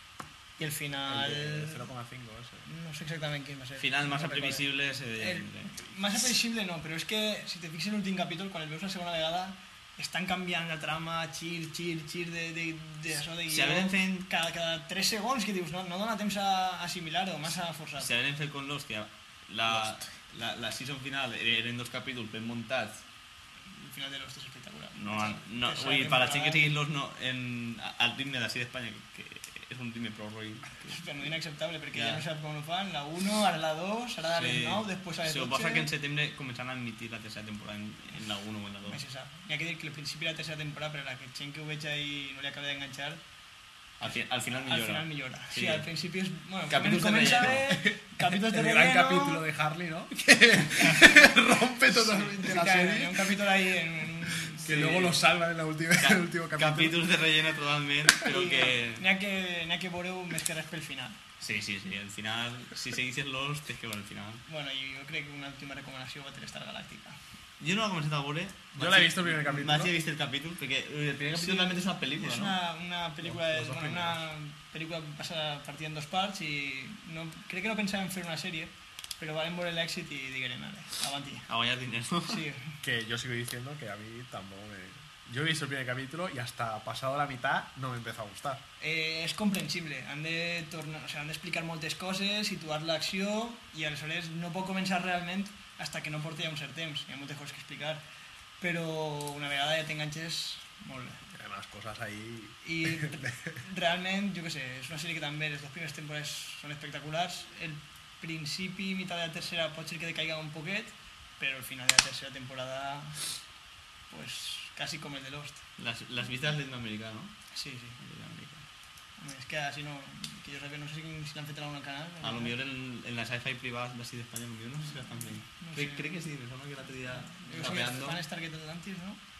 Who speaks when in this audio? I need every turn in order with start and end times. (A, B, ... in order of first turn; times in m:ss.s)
0:00.6-0:01.8 A
0:01.1-0:02.7 B
0:02.6-0:04.6 A
0:03.8-0:05.8 C
0:05.2-0:18.1 A
0:13.5-0:14.3 C
0:18.0-0:23.0 C
0:23.7-0:26.7 A
0:24.9-0:31.0 C
0:30.8-0:35.9 A
0:31.9-0:32.2 C
0:34.3-0:39.0 C
0:38.9-0:43.2 A
0:44.0-0:45.9 C
0:44.1-0:49.4 A
0:46.7-0:47.7 C
0:47.6-0:57.0 B
0:52.2-0:55.1 A
0:54.6-0:55.2 C
0:56.0-0:59.0 C
0:58.2-1:01.2 A
1:01.4-1:04.4 C
1:04.4-1:07.2 A
1:07.6-1:12.6 C
1:08.8-1:09.9 B
1:11.3-1:21.5 A
1:13.2-1:14.2 B
1:21.5-1:22.4 C
1:22.3-1:22.8 A
1:22.8-1:28.6 B
1:28.8-1:38.0 A
1:38.6-1:41.2 A
1:41.3-1:43.6 B
1:42.6-1:53.2 A
1:54.1-1:55.6 A
1:55.8-1:57.4 C
1:57.5-1:58.0 A
1:58.0-1:58.6 C
1:59.2-2:02.5 A
2:02.2-2:08.2 C
2:05.5-2:06.1 A
2:07.2-2:09.2 A